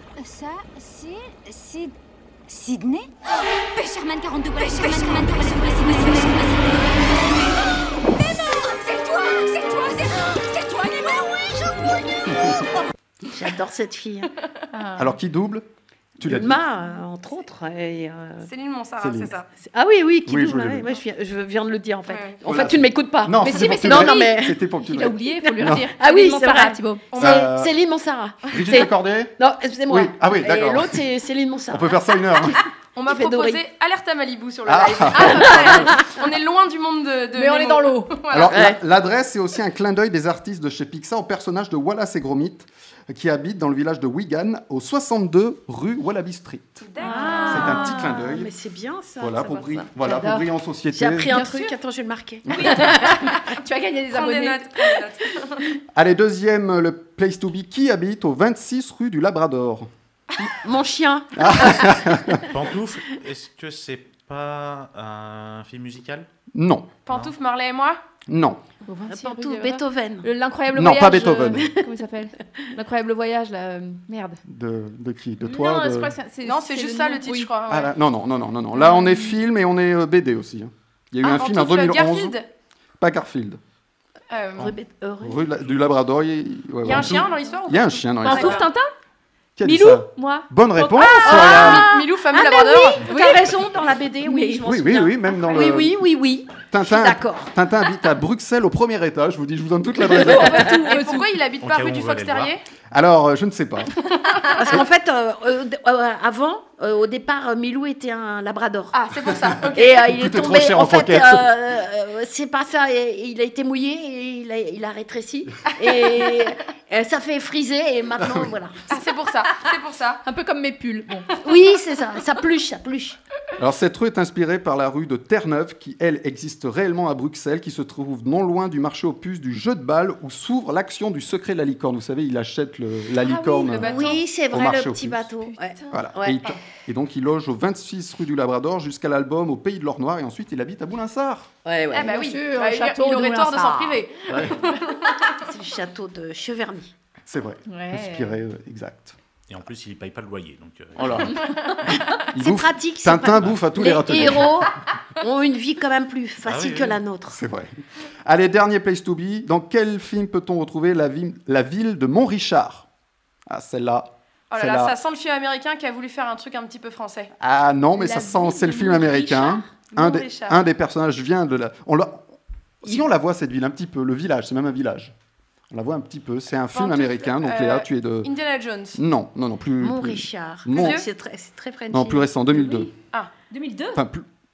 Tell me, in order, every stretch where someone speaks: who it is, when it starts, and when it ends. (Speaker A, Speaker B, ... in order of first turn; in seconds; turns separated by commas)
Speaker A: 0.2-1.9, Speaker A: 2.5-12.3, Speaker B: 4.6-6.2, Speaker C: 13.2-14.3, Speaker B: 14.7-15.1, Speaker D: 14.9-15.7, Speaker D: 16.2-16.6, Speaker C: 16.2-18.5, Speaker E: 18.4-19.5, Speaker D: 19.0-19.3, Speaker C: 19.6-24.6, Speaker D: 20.2-20.9, Speaker E: 22.1-22.3, Speaker D: 22.4-25.9, Speaker B: 23.4-27.0, Speaker C: 25.9-33.6, Speaker E: 27.1-27.5, Speaker D: 27.2-27.7, Speaker D: 28.5-29.4, Speaker D: 29.9-31.0, Speaker D: 31.7-32.6, Speaker E: 33.0-38.6, Speaker D: 34.7-36.1, Speaker C: 35.0-36.1, Speaker B: 37.4-38.2, Speaker D: 38.3-46.9, Speaker C: 38.4-38.8, Speaker E: 46.8-47.9, Speaker C: 47.0-49.9, Speaker B: 47.0-47.8, Speaker D: 47.5-48.5, Speaker D: 49.2-51.4, Speaker B: 50.0-50.5, Speaker C: 50.9-53.4, Speaker B: 51.2-51.8, Speaker B: 52.5-54.7, Speaker E: 54.1-55.7, Speaker D: 55.9-59.9, Speaker C: 60.6-62.4, Speaker D: 61.4-62.4, Speaker F: 62.5-66.3, Speaker D: 66.5-66.9, Speaker E: 67.1-68.0, Speaker D: 68.3-68.6, Speaker B: 68.8-74.4, Speaker C: 69.1-70.3, Speaker D: 70.7-71.7, Speaker D: 74.5-76.1, Speaker B: 75.4-77.5, Speaker E: 76.4-77.9, Speaker D: 77.7-82.4, Speaker B: 78.9-79.2, Speaker E: 81.2-82.5, Speaker D: 83.0-83.6, Speaker E: 84.3-84.7, Speaker C: 84.6-85.4, Speaker D: 84.6-88.7, Speaker E: 86.8-88.7, Speaker B: 88.2-88.9, Speaker D: 89.6-91.9, Speaker B: 89.6-93.6, Speaker E: 91.2-93.0, Speaker C: 91.2-92.0, Speaker C: 92.8-97.5, Speaker B: 94.2-94.6, Speaker D: 94.6-96.0, Speaker B: 95.6-95.9, Speaker D: 96.7-100.7, Speaker B: 100.1-101.2, Speaker C: 100.4-100.6, Speaker E: 100.7-102.6, Speaker F: 101.6-102.5, Speaker D: 102.9-103.9, Speaker C: 104.6-109.0, Speaker E: 108.9-110.0, Speaker C: 109.8-118.8, Speaker D: 110.0-111.5, Speaker D: 118.2-118.5, Speaker E: 118.9-120.2, Speaker B: 120.2-121.3, Speaker C: 121.4-123.2, Speaker D: 123.6-135.3, Speaker B: 133.2-133.9, Speaker E: 133.5-134.2, Speaker C: 133.8-136.4, Speaker B: 135.5-136.0, Speaker D: 135.9-141.5, Speaker C: 141.6-142.3, Speaker E: 141.9-145.3, Speaker B: 142.0-144.1, Speaker D: 144.3-144.6, Speaker C: 145.4-146.9, Speaker D: 147.3-149.2, Speaker B: 147.7-148.4, Speaker F: 149.5-151.5, Speaker D: 150.9-151.4, Speaker D: 152.3-154.7, Speaker C: 152.3-157.4, Speaker F: 156.4-157.0, Speaker D: 157.3-162.9, Speaker D: 163.5-164.9, Speaker E: 164.5-167.3, Speaker D: 167.4-172.2, Speaker B: 168.0-169.7, Speaker E: 169.9-170.6, Speaker D: 172.8-175.1, Speaker D: 175.7-178.3, Speaker E: 176.7-179.0, Speaker D: 178.9-181.0, Speaker C: 179.8-182.9, Speaker E: 180.8-181.1, Speaker D: 181.9-182.9, Speaker B: 183.5-184.0, Speaker D: 183.9-184.2